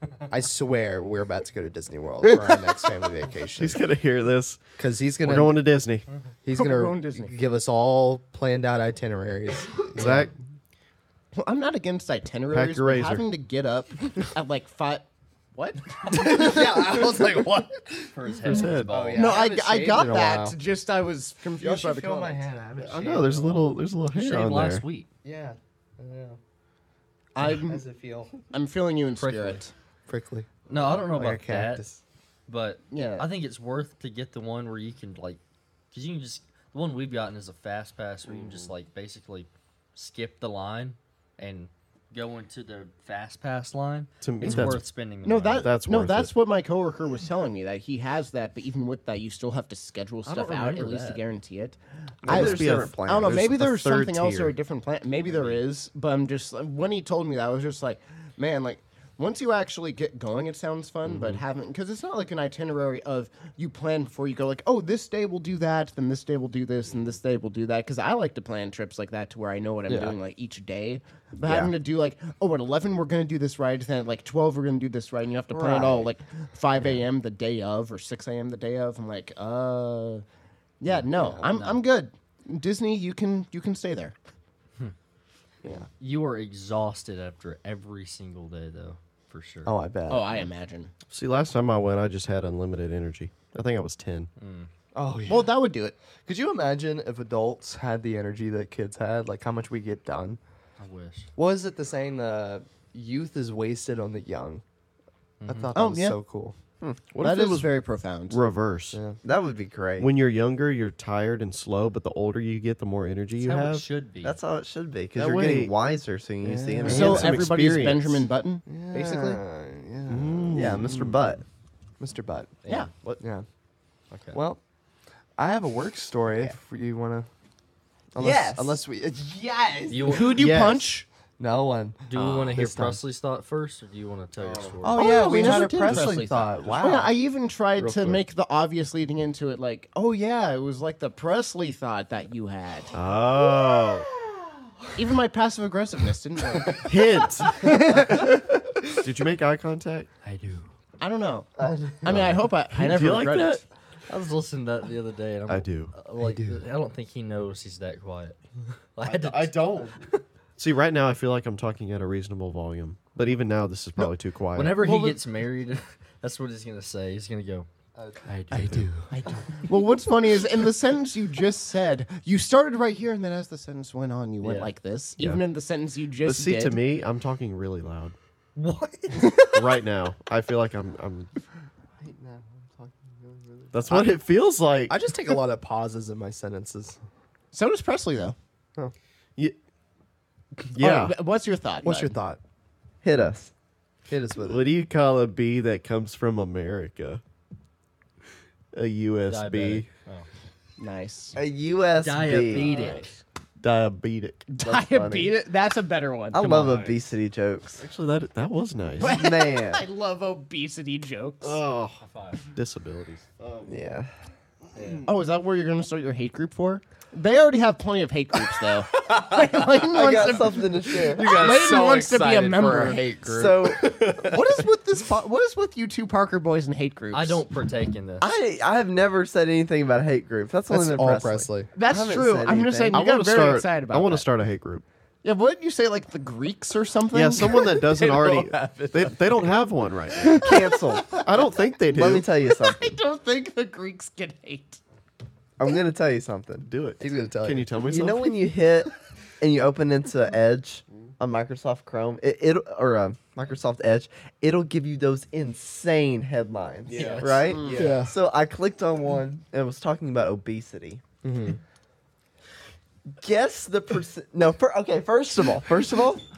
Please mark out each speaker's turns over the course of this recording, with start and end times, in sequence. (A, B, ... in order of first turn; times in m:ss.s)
0:00.3-0:03.8 A
0:02.3-0:02.6 B
0:03.6-0:04.6 C
0:04.8-0:05.6 A
0:05.2-0:06.1 C
0:06.4-0:10.3 A
0:06.5-0:07.3 B
0:10.0-0:10.3 C
0:11.3-0:17.4 B
0:12.5-0:13.3 C
0:16.1-0:20.6 A
0:18.2-0:18.7 D
0:18.2-0:19.4 E
0:18.5-0:19.0 C
0:19.1-0:22.5 B
0:21.6-0:23.8 A
0:22.8-0:24.8 C
0:24.1-0:25.1 E
0:25.2-0:26.4 A
0:27.4-0:27.8 B
0:27.4-0:28.4 A
0:28.5-0:29.7 B
0:29.2-0:29.6 E
0:30.1-0:32.0 A
0:30.7-0:31.8 E
0:32.5-0:35.4 E
0:32.9-0:33.3 B
0:35.9-0:45.7 E
0:44.2-0:44.8 C
0:45.2-1:20.2 B
0:45.6-0:46.4 C
0:50.2-0:51.2 E
0:52.2-0:53.4 D
0:52.2-0:54.6 C
0:55.3-0:55.6 E
1:01.1-1:01.4 C
1:09.9-1:10.2 A
1:11.4-1:11.7 D
1:15.5-1:16.1 A
1:20.8-1:24.2 B
1:21.1-1:21.6 A
1:26.0-1:29.7 E
1:29.6-1:30.4 A
1:30.1-1:30.9 B
1:31.1-1:34.3 C
1:34.4-1:34.7 E
1:34.9-1:35.6 A
1:35.3-1:36.0 B
1:36.2-1:40.4 A
1:40.8-1:41.3 E
1:41.4-1:44.6 A
1:45.4-1:45.7 E
1:45.4-1:46.6 A
1:45.7-1:46.2 B
1:46.8-1:47.1 D
1:47.1-1:47.8 C
1:47.2-1:48.4 B
1:48.3-1:49.0 C
1:48.9-1:49.2 A
1:49.2-1:50.1 D
1:50.0-1:53.8 C
1:53.4-1:54.4 E
1:54.2-1:57.4 D
1:55.2-1:55.7 C
1:56.4-1:57.2 A
1:56.9-1:58.3 C
1:56.9-1:59.4 B
1:58.7-2:00.8 A
1:58.9-1:59.4 D
2:00.1-2:01.2 C
2:00.5-2:01.4 D
2:02.0-2:02.6 A
2:02.6-2:02.9 E
2:02.7-2:03.1 B
2:03.2-2:03.5 A
2:04.1-2:04.4 E
2:04.3-2:04.6 A
2:05.4-2:07.3 A
2:08.1-2:10.3 A
2:08.2-2:08.8 D
2:09.9-2:10.4 E
2:10.1-2:11.1 B
2:10.4-2:10.9 C
2:11.4-2:13.0 A
2:12.1-2:15.1 E
2:14.4-2:14.8 C
2:14.8-2:17.1 A
2:15.0-2:23.0 B
2:15.3-2:16.1 D
2:22.9-2:24.1 C
2:25.0-2:28.6 B
2:26.8-2:28.0 C
2:29.0-2:30.1 C
2:30.2-2:30.7 E
2:31.0-2:31.5 B
2:31.6-2:31.9 A
2:32.0-2:33.6 B
2:32.1-2:33.6 C
2:34.1-2:38.4 E
2:35.5-2:35.9 C
2:36.2-2:36.6 A
2:39.0-2:39.9 E
2:39.0-2:40.0 C
2:40.6-2:45.0 C
2:44.6-2:47.7 E
2:48.0-2:49.6 A
2:48.2-2:48.9 E
2:49.1-2:56.8 B
2:54.4-2:54.7 E
2:55.2-2:55.4 C
2:56.2-2:58.2 C
2:58.6-2:59.4 E
2:59.4-3:01.3 C
3:02.0-3:04.2 A
3:03.7-3:04.9 C
3:04.9-3:07.0 A
3:07.5-3:08.4 B
3:10.8-3:11.2 C
3:10.8-3:12.2 B
3:11.8-3:12.4 A
3:13.0-3:13.5 D
3:14.1-3:14.6 A
3:14.4-3:17.2 C
3:18.7-3:19.9 C
3:19.3-3:20.3 E
3:20.8-3:21.4 B
3:21.4-3:23.0 D
3:22.0-3:23.2 E
3:22.6-3:23.0 B
3:23.6-3:24.5 C
3:24.5-3:26.9 B
3:24.6-3:25.4 D
3:26.3-3:27.8 D
3:26.4-3:27.0 E
3:27.8-3:29.2 C
3:29.0-3:31.6 B
3:29.0-3:29.8 D
3:31.4-3:33.9 C
3:32.0-3:32.4 E
3:33.7-3:34.1 D
3:34.8-3:35.1 E
3:35.0-3:43.1 B
3:39.4-3:44.6 A
3:39.8-3:41.5 D
3:43.2-3:44.1 D
3:44.0-3:47.4 B
3:47.1-3:48.3 E
3:48.2-3:53.0 D
3:50.7-3:51.7 A
3:51.7-3:54.3 B
3:52.9-3:54.8 C
3:55.2-3:57.8 B
3:57.1-4:00.4 C
3:57.5-3:59.5 A
4:00.2-4:01.5 B
4:00.3-4:01.2 D
4:01.2-4:02.3 C
4:01.9-4:03.0 D
4:02.5-4:04.8 B
4:05.6-4:06.7 D
4:06.7-4:08.3 C
4:07.0-4:08.1 A
4:07.8-4:21.0 D
4:16.9-4:18.0 C
4:16.9-4:17.6 E
4:17.5-4:18.0 B
4:17.7-4:18.1 A
4:21.2-4:21.6 A
4:23.2-4:26.2 D